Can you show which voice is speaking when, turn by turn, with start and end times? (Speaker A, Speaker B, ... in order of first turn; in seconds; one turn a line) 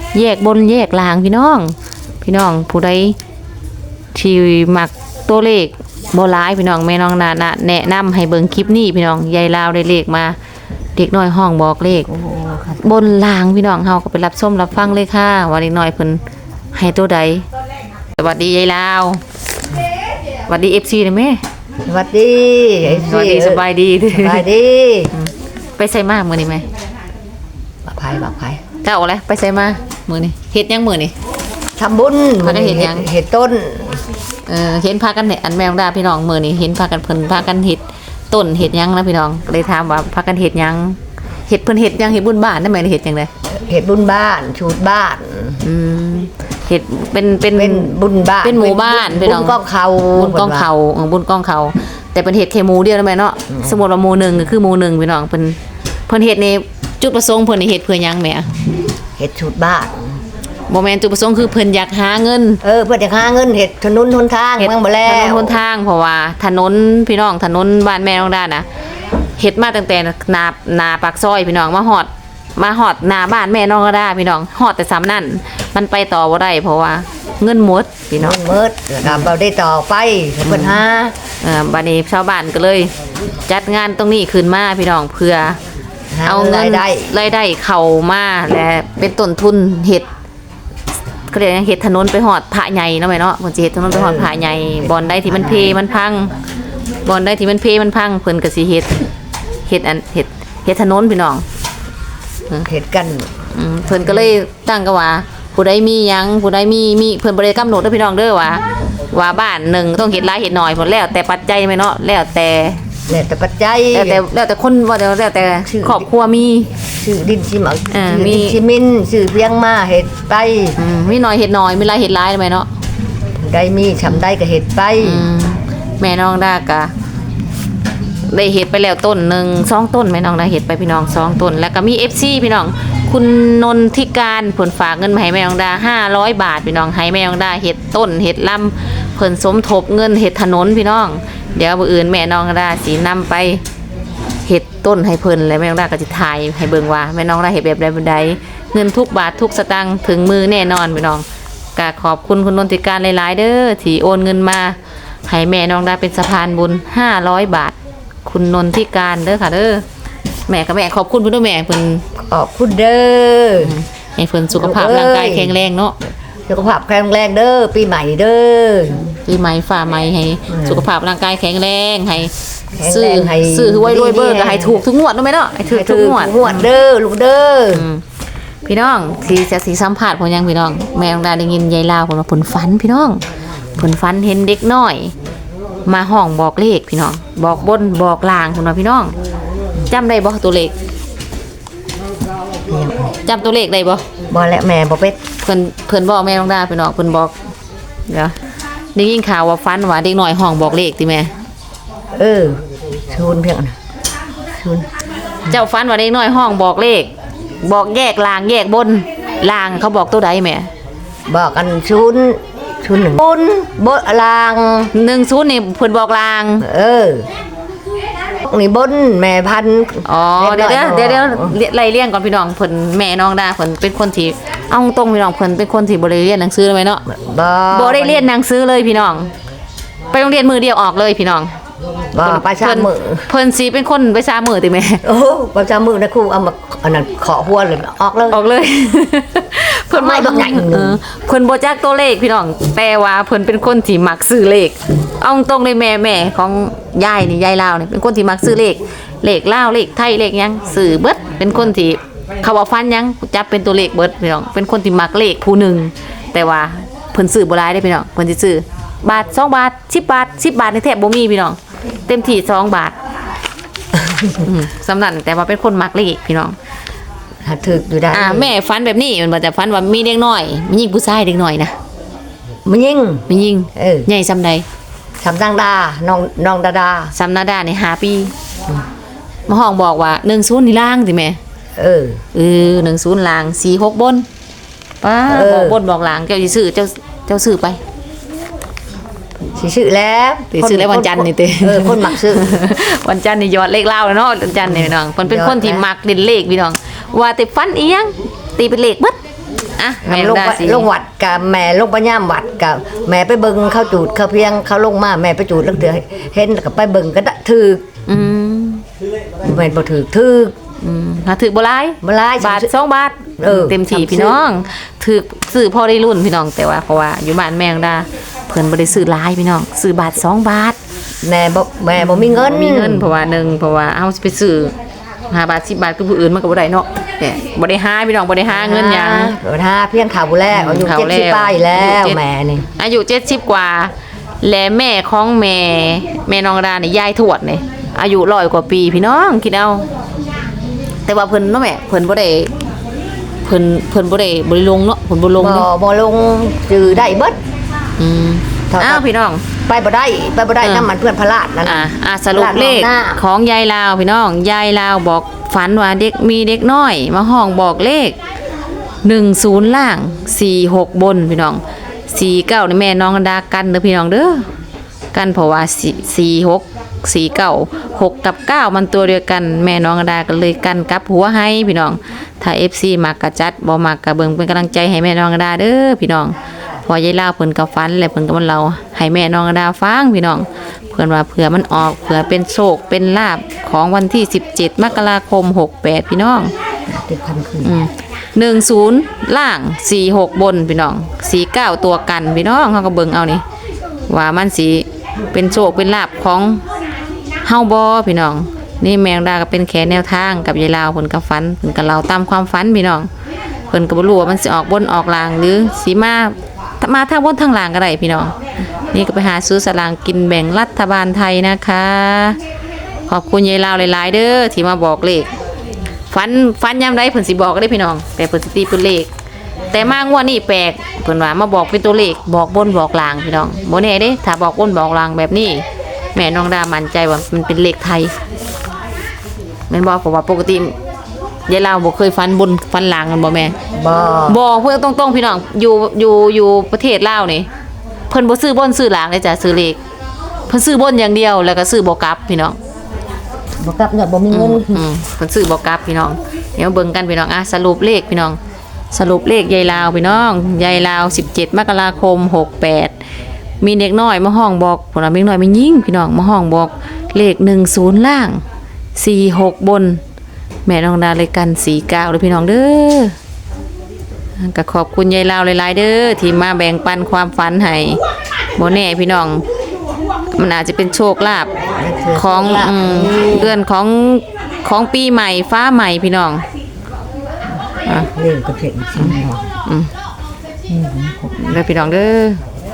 Speaker A: 0.1-3.2
Speaker A: 4.1-10.4
Speaker A: 11.0-12.1
Speaker B: 12.1-12.8
Speaker A: 12.8-16.2
Speaker A: 16.7-17.4
Speaker A: 18.1-19.2
Speaker A: 20.5-21.4
Speaker B: 21.9-25.1
Speaker A: 22.8-24.4
Speaker A: 25.1-26.6
Speaker B: 27.9-28.6
Speaker A: 28.8-31.1
Speaker B: 31.8-34.0
Speaker A: 32.4-33.1
Speaker A: 34.5-43.3
Speaker B: 43.5-45.6
Speaker A: 45.6-49.6
Speaker B: 47.5-50.7
Speaker A: 50.1-58.5
Speaker B: 59.2-60.2
Speaker A: 60.7-62.6
Speaker B: 62.6-65.6
Speaker A: 64.6-68.7
Speaker A: 69.4-78.4
Speaker B: 78.2-81.2
Speaker A: 80.5-80.8
Speaker A: 81.4-82.9
Speaker A: 83.5-85.6
Speaker B: 86.1-87.1
Speaker A: 86.3-90.1
Speaker A: 91.3-96.4
Speaker B: 93.9-94.3
Speaker B: 95.2-95.7
Speaker A: 97.0-99.0
Speaker A: 99.7-101.5
Speaker B: 102.7-103.4
Speaker A: 103.5-112.8
Speaker B: 113.1-114.2
Speaker A: 113.9-116.7
Speaker B: 115.7-116.1
Speaker B: 117.0-120.8
Speaker A: 117.9-118.6
Speaker A: 120.8-122.7
Speaker B: 123.4-125.2
Speaker A: 125.0-126.9
Speaker A: 128.3-143.6
Speaker A: 144.4-151.2
Speaker A: 151.8-159.8
Speaker A: 160.5-162.0
Speaker B: 162.2-163.8
Speaker A: 163.6-165.9
Speaker B: 164.5-165.5
Speaker B: 166.5-169.0
Speaker A: 169.0-176.7
Speaker B: 170.5-170.8
Speaker B: 172.8-174.8
Speaker B: 175.6-177.9
Speaker A: 177.7-178.0
Speaker A: 178.7-183.2
Speaker A: 183.8-185.1
Speaker A: 185.9-189.2
Speaker A: 189.9-190.7
Speaker B: 192.7-193.1
Speaker A: 193.2-194.0
Speaker B: 194.3-195.2
Speaker A: 195.4-197.3
Speaker A: 198.1-198.3
Speaker A: 198.9-201.3
Speaker B: 202.2-203.8
Speaker B: 204.6-204.9
Speaker A: 205.5-207.1
Speaker A: 207.6-210.7
Speaker B: 211.3-214.9
Speaker A: 214.9-216.7
Speaker B: 216.6-217.3
Speaker B: 218.4-221.6
Speaker A: 220.1-227.1
Speaker B: 227.1-228.3
Speaker A: 227.7-229.3
Speaker A: 230.1-231.5
Speaker B: 232.1-233.3
Speaker A: 232.2-235.0
Speaker B: 235.0-238.4
Speaker A: 238.3-263.0
Speaker B: 239.9-241.0
Speaker B: 263.9-264.4
Speaker A: 264.4-266.6
Speaker B: 267.4-268.5
Speaker A: 268.1-271.8
Speaker B: 272.7-274.1
Speaker A: 273.3-274.7
Speaker B: 275.2-277.1
Speaker A: 277.1-278.3
Speaker A: 279.5-281.4
Speaker B: 281.8-282.2
Speaker A: 282.3-284.3
Speaker A: 285.0-287.8
Speaker B: 285.3-285.8
Speaker B: 289.6-292.5
Speaker A: 290.5-299.2
Speaker B: 294.7-295.9
Speaker A: 299.8-300.9
Speaker B: 300.0-307.8
Speaker A: 308.1-308.8
Speaker B: 309.4-310.5
Speaker A: 310.8-320.8
Speaker B: 312.0-312.7
Speaker B: 313.4-314.4
Speaker B: 321.2-323.1
Speaker A: 322.0-324.7
Speaker A: 325.3-329.3
Speaker B: 328.5-332.7
Speaker A: 330.5-332.2
Speaker A: 332.8-339.9
Speaker A: 341.1-342.5
Speaker A: 343.4-345.7
Speaker B: 345.4-347.4
Speaker A: 348.0-349.4
Speaker B: 348.7-349.0
Speaker B: 349.7-353.2
Speaker A: 350.6-350.9
Speaker A: 351.6-358.2
Speaker A: 359.0-364.5
Speaker A: 365.1-376.4
Speaker A: 376.9-386.5
Speaker B: 386.9-387.8
Speaker A: 387.6-393.4
Speaker A: 394.1-396.6
Speaker A: 397.4-403.1
Speaker A: 403.7-408.4
Speaker A: 408.9-412.4
Speaker A: 413.1-415.3
Speaker A: 416.1-419.1
Speaker A: 419.7-428.1
Speaker A: 429.7-430.8
Speaker A: 431.5-433.5
Speaker B: 433.8-434.4
Speaker A: 434.3-437.5
Speaker A: 438.1-439.8
Speaker A: 440.5-442.6
Speaker B: 443.6-444.9
Speaker A: 444.3-448.4
Speaker A: 448.9-452.9
Speaker A: 453.6-458.4
Speaker A: 459.0-460.0
Speaker A: 460.7-463.1
Speaker A: 464.4-468.0
Speaker A: 468.6-469.4
Speaker A: 470.3-471.5
Speaker B: 471.8-473.6
Speaker A: 472.1-476.4
Speaker B: 478.1-479.5
Speaker A: 479.0-479.9
Speaker B: 480.7-481.4
Speaker A: 481.4-482.4